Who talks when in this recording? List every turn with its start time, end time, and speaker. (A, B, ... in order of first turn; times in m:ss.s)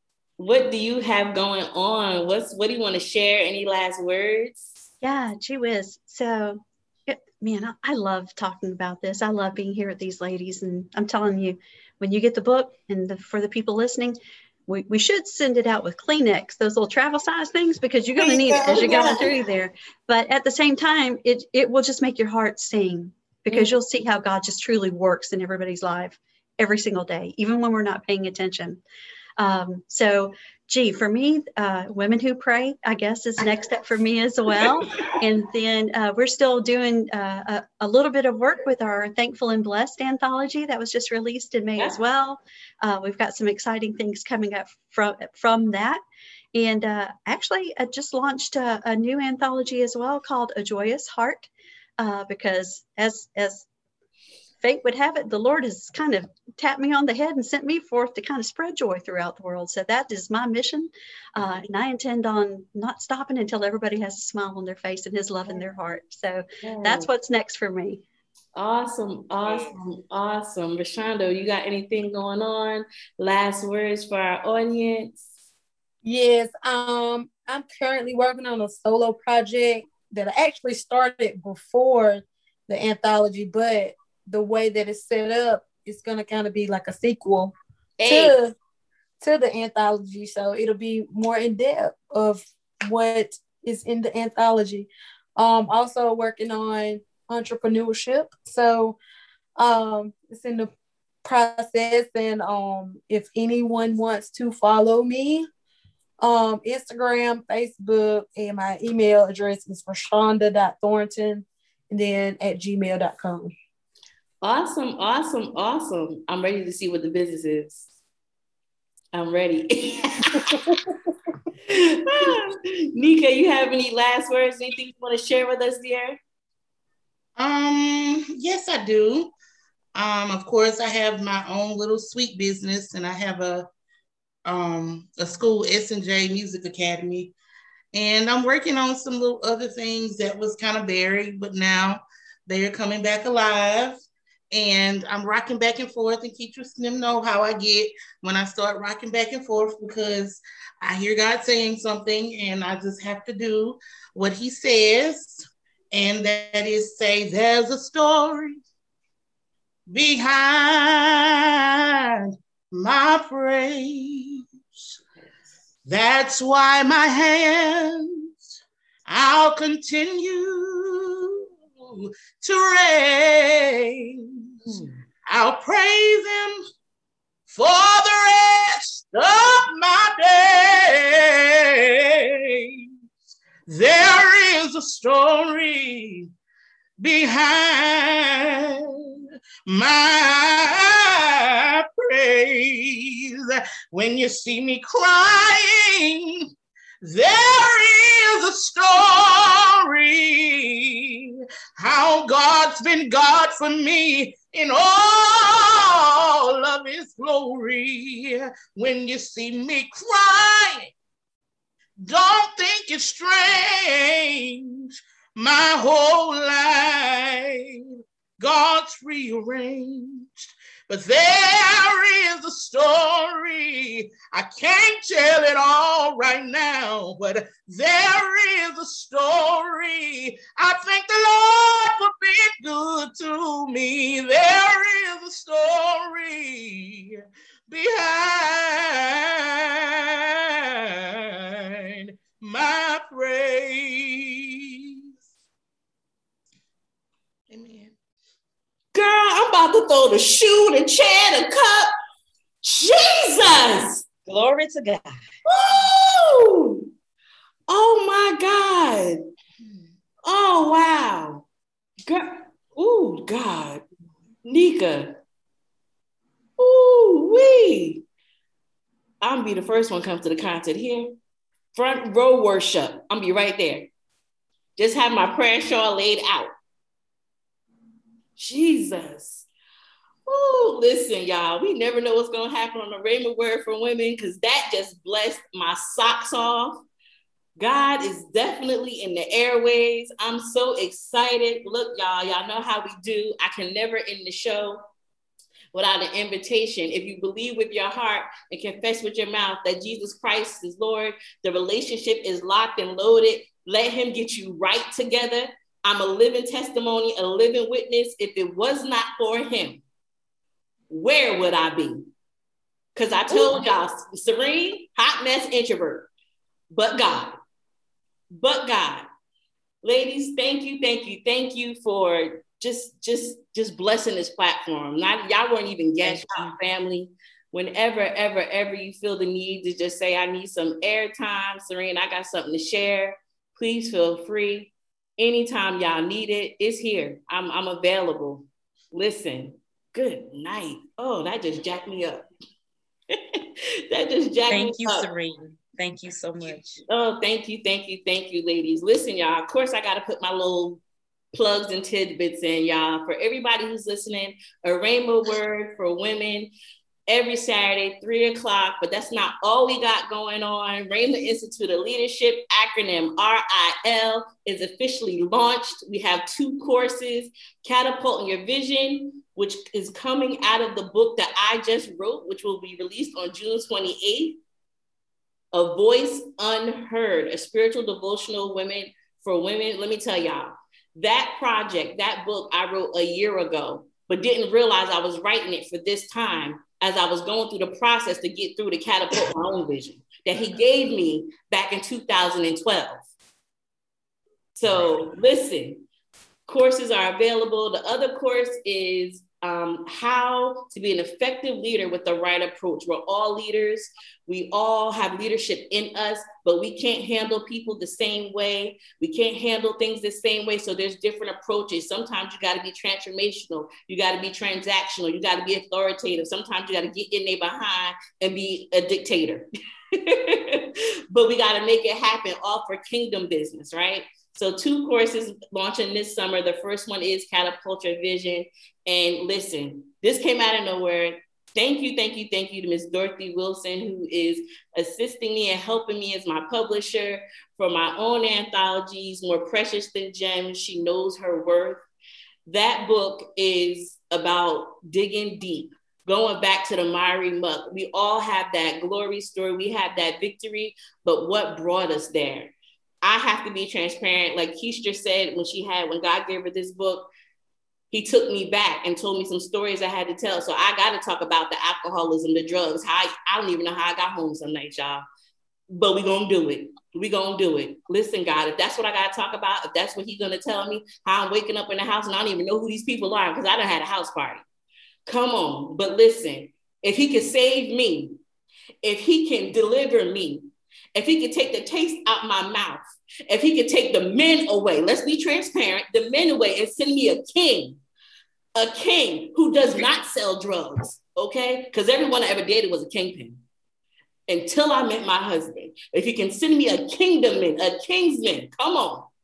0:00.4-0:04.8 A
0:05.0-0:28.8 B
0:18.2-0:19.3 A
0:29.4-0:46.0 B
0:46.5-0:53.7 B
0:54.6-1:08.0 B
1:06.6-1:07.1 A
1:08.5-1:15.2 A
1:09.4-1:09.8 C
1:16.0-1:28.5 D
1:28.0-1:28.4 A
1:29.2-1:39.0 D
1:39.6-1:40.7 D
1:41.2-1:45.4 D
1:46.2-1:53.5 D
1:54.4-1:57.8 A
1:59.1-2:00.5 A
2:00.4-2:00.7 D
2:01.7-2:06.2 A
2:07.4-2:09.3 E
2:09.9-2:13.7 E
2:14.4-2:17.3 E
2:17.9-2:24.0 E
2:24.5-2:38.6 E
2:39.9-2:41.4 E
2:42.2-2:44.4 E
2:45.9-2:48.1 E
2:49.1-2:54.1 E
2:54.6-2:55.0 A
2:55.3-2:56.6 E
2:57.5-3:01.6 E
3:03.6-3:06.3 E
3:07.0-3:08.7 E
3:09.6-3:16.5 E
3:17.0-3:30.9 E
3:32.0-3:37.6 E
3:38.4-3:59.9 E
4:01.8-4:04.7 E
4:07.5-4:07.9 E
4:08.9-4:11.9 A
4:12.6-4:14.0 A
4:14.3-4:15.2 C
4:15.4-4:16.8 A
4:17.7-4:19.2 A
4:20.2-4:21.4 A
4:22.1-4:23.8 A
4:24.4-4:25.2 A
4:26.6-4:28.0 A
4:29.2-4:31.1 A
4:31.7-4:33.9 A
4:34.8-4:36.5 A
4:38.4-4:39.5 A
4:40.3-4:46.8 A
4:47.6-4:54.8 A
4:55.7-5:09.8 A
5:10.9-5:12.0 A
5:12.9-5:16.1 A
5:13.3-5:13.6 C
5:16.7-5:17.3 A
5:18.3-5:19.0 A
5:19.8-5:42.2 A
5:26.0-5:26.6 C
5:43.1-5:45.0 A
5:44.5-5:46.8 C
5:46.9-5:50.8 A
5:51.3-5:56.5 A
5:57.1-6:14.4 A
6:15.5-6:33.0 A
6:34.6-6:35.8 A
6:36.5-6:59.4 A
7:00.0-7:21.8 A
7:22.4-7:37.1 A
7:37.9-7:45.0 A
7:45.7-7:54.4 A
7:55.0-7:58.2 A
7:58.8-8:07.8 A
8:08.6-8:13.4 A
8:14.3-8:19.1 A